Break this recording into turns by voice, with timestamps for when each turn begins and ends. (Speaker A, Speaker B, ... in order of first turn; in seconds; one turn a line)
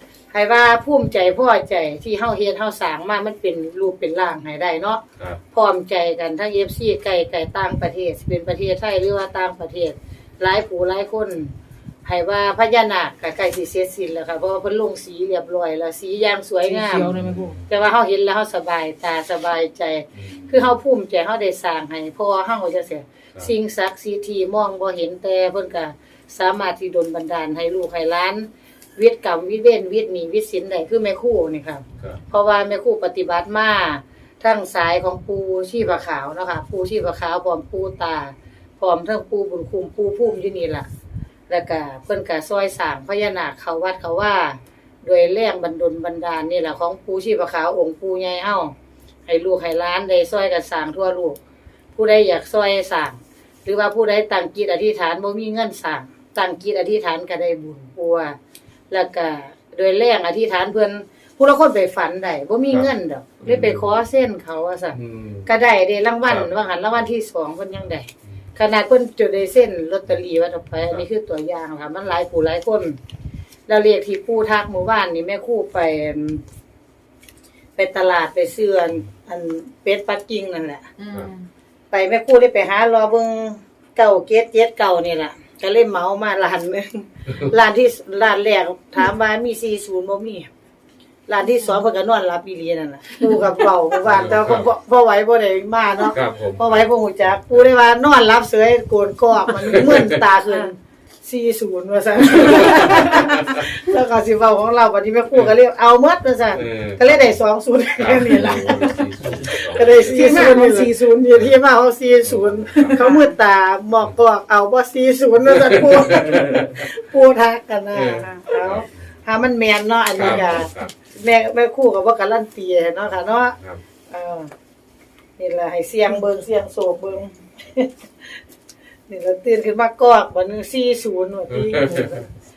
Speaker A: 0.3-17.1
Speaker B: 16.6-17.6
Speaker C: 17.1-17.7
Speaker A: 17.7-40.9
Speaker C: 20.1-20.8
Speaker A: 41.5-48.7
Speaker A: 49.3-51.4
Speaker A: 51.9-58.4
Speaker A: 58.9-73.0
Speaker C: 63.4-64.0
Speaker C: 64.9-65.5
Speaker A: 73.7-76.4
Speaker A: 77.8-80.9
Speaker B: 81.0-81.5
Speaker A: 81.9-90.5
Speaker A: 91.3-123.5
Speaker C: 94.0-94.7
Speaker C: 96.1-97.4
Speaker C: 99.7-100.0
Speaker B: 102.6-102.9
Speaker C: 106.5-107.4
Speaker C: 108.0-110.5
Speaker B: 110.0-111.4
Speaker C: 112.2-113.0
Speaker B: 112.9-113.3
Speaker C: 115.5-116.7
Speaker C: 117.9-119.2
Speaker B: 118.2-118.4
Speaker C: 120.1-121.0
Speaker C: 123.4-123.8
Speaker A: 124.1-124.5
Speaker A: 125.4-128.3
Speaker A: 129.1-132.3
Speaker C: 131.5-132.1